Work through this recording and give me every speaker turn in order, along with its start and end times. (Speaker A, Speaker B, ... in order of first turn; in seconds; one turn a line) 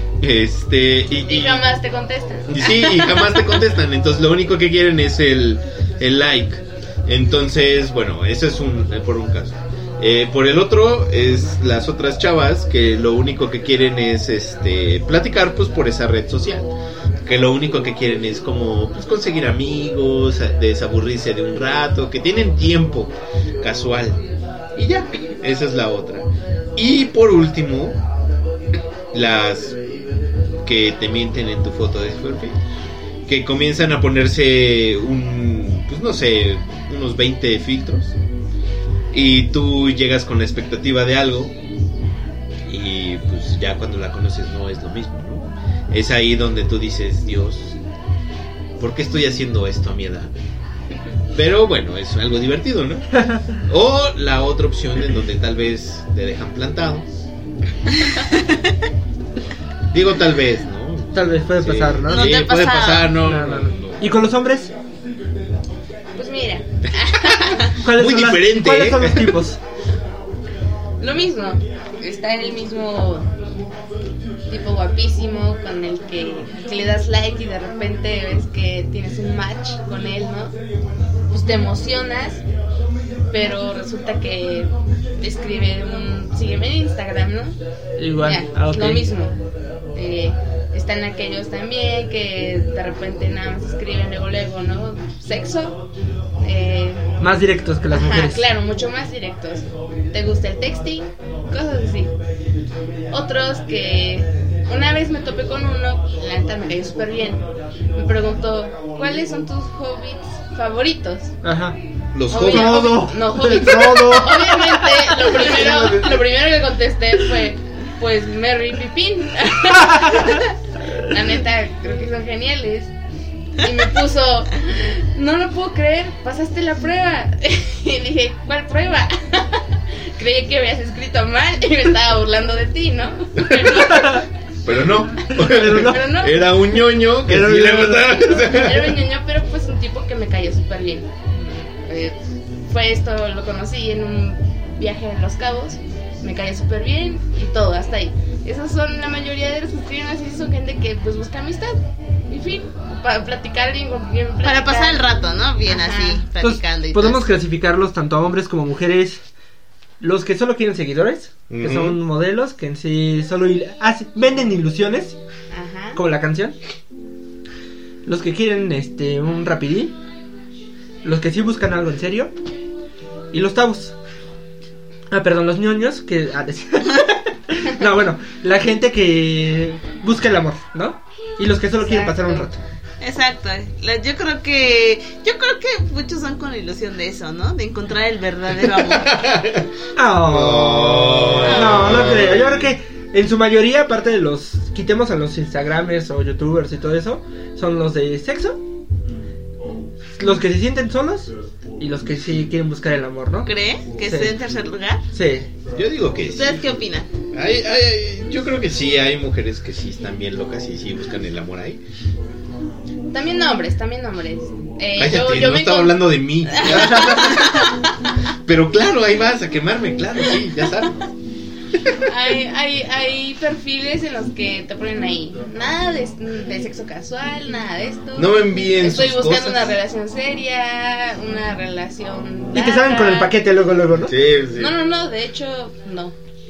Speaker A: 0.2-1.6
Speaker B: 1.2-3.6
Speaker A: 2.5-16.7
Speaker A: 17.2-24.2
Speaker A: 24.7-28.0
Speaker A: 29.1-29.8
Speaker A: 30.6-32.6
Speaker A: 33.2-38.1
Speaker A: 39.1-41.5
Speaker A: 42.7-47.8
Speaker A: 48.8-50.3
Speaker A: 51.3-57.1
Speaker C: 53.2-53.4
Speaker A: 59.9-64.1
Speaker C: 61.1-62.4
Speaker D: 62.1-63.2
Speaker C: 63.2-64.7
Speaker B: 66.1-67.8
Speaker A: 67.2-69.4
Speaker C: 67.8-69.6
Speaker B: 71.0-73.3
Speaker B: 74.5-80.5
Speaker B: 81.3-82.4
Speaker B: 83.3-87.6
Speaker C: 88.0-89.1
Speaker B: 88.2-89.3
Speaker B: 89.9-95.8
Speaker B: 96.4-97.1
Speaker C: 97.2-98.4
Speaker B: 97.9-102.1
Speaker B: 103.1-111.3
Speaker C: 111.4-111.8
Speaker A: 112.1-113.1
Speaker B: 112.3-122.9
Speaker C: 112.4-115.2
Speaker A: 115.2-116.2
Speaker B: 123.6-134.2
Speaker C: 133.8-134.2
Speaker A: 134.6-139.0
Speaker C: 135.3-136.1
Speaker B: 135.8-136.6
Speaker C: 137.2-138.2
Speaker B: 138.1-151.8
Speaker B: 152.3-155.1
Speaker D: 154.4-157.2
Speaker B: 155.7-156.2
Speaker C: 156.4-159.2
Speaker C: 160.0-165.2
Speaker A: 161.5-162.0
Speaker B: 165.5-166.0
Speaker C: 165.9-166.6
Speaker C: 168.0-169.9
Speaker C: 171.0-172.3
Speaker C: 173.3-173.9
Speaker C: 175.1-182.6
Speaker B: 181.8-182.5
Speaker D: 183.0-189.2
Speaker A: 188.8-189.7
Speaker C: 189.9-198.6
Speaker A: 190.3-192.7
Speaker D: 191.4-191.9
Speaker C: 200.2-201.3
Speaker C: 201.8-204.3
Speaker D: 203.4-205.0
Speaker C: 205.1-205.5
Speaker A: 205.7-206.6
Speaker D: 206.3-207.1
Speaker A: 207.3-211.8
Speaker B: 213.1-218.1
Speaker A: 214.9-217.5
Speaker A: 218.4-221.1
Speaker A: 221.7-222.1
Speaker B: 222.0-233.3
Speaker A: 228.1-229.8
Speaker C: 232.5-234.1
Speaker A: 234.0-234.8
Speaker B: 234.5-236.1